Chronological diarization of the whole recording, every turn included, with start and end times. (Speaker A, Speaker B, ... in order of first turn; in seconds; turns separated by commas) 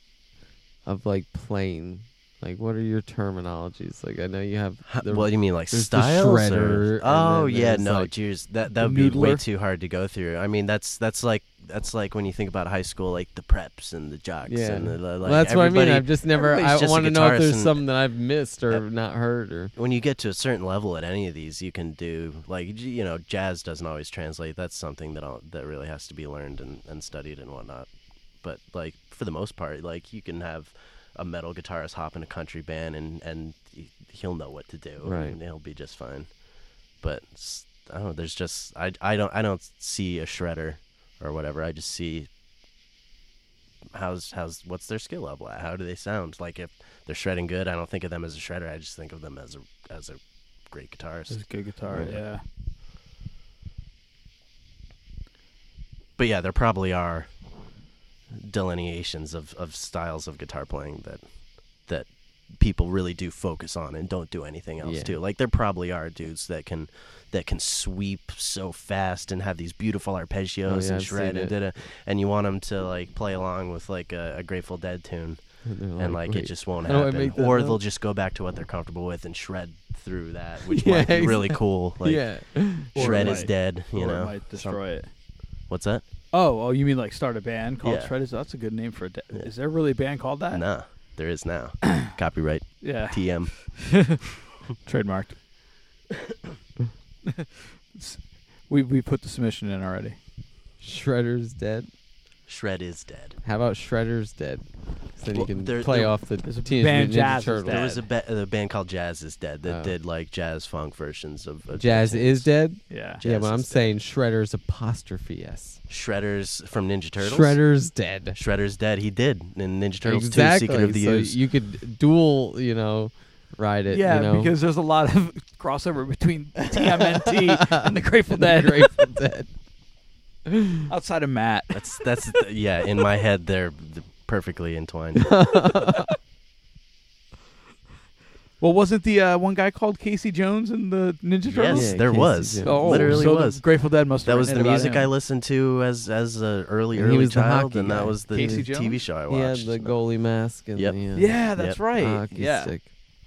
Speaker A: 0.8-8.1, Speaker B: 4.9-17.8, Speaker C: 8.7-9.4, Speaker A: 14.4-19.7, Speaker B: 19.7-27.9, Speaker B: 28.4-36.4, Speaker A: 35.0-35.4, Speaker B: 37.0-42.3, Speaker B: 43.9-52.2, Speaker C: 51.3-52.4, Speaker B: 56.2-57.3, Speaker B: 58.3-84.8, Speaker A: 64.8-65.2, Speaker A: 70.6-71.6, Speaker A: 75.6-77.8, Speaker A: 80.7-83.5, Speaker C: 82.9-85.1, Speaker B: 85.7-86.0, Speaker C: 86.3-90.6, Speaker B: 87.8-88.1, Speaker B: 90.5-93.7, Speaker C: 92.8-94.2, Speaker C: 94.8-95.4, Speaker C: 97.3-100.2, Speaker A: 100.8-101.9, Speaker B: 102.5-103.4, Speaker A: 103.4-107.9, Speaker B: 105.3-106.2, Speaker C: 106.4-108.0, Speaker B: 107.6-113.9, Speaker A: 109.7-109.9, Speaker A: 111.7-115.8, Speaker C: 112.9-113.2, Speaker B: 115.9-117.8, Speaker A: 117.2-118.4, Speaker B: 118.3-121.4, Speaker A: 120.0-124.5, Speaker C: 123.9-129.1, Speaker A: 126.8-129.5, Speaker A: 130.5-130.7, Speaker C: 130.9-132.0, Speaker B: 131.7-135.3, Speaker A: 135.3-136.1, Speaker C: 138.6-145.1, Speaker B: 141.5-150.0, Speaker A: 141.7-143.3, Speaker A: 146.9-152.9, Speaker C: 148.3-149.0, Speaker C: 151.1-152.7, Speaker B: 151.5-151.8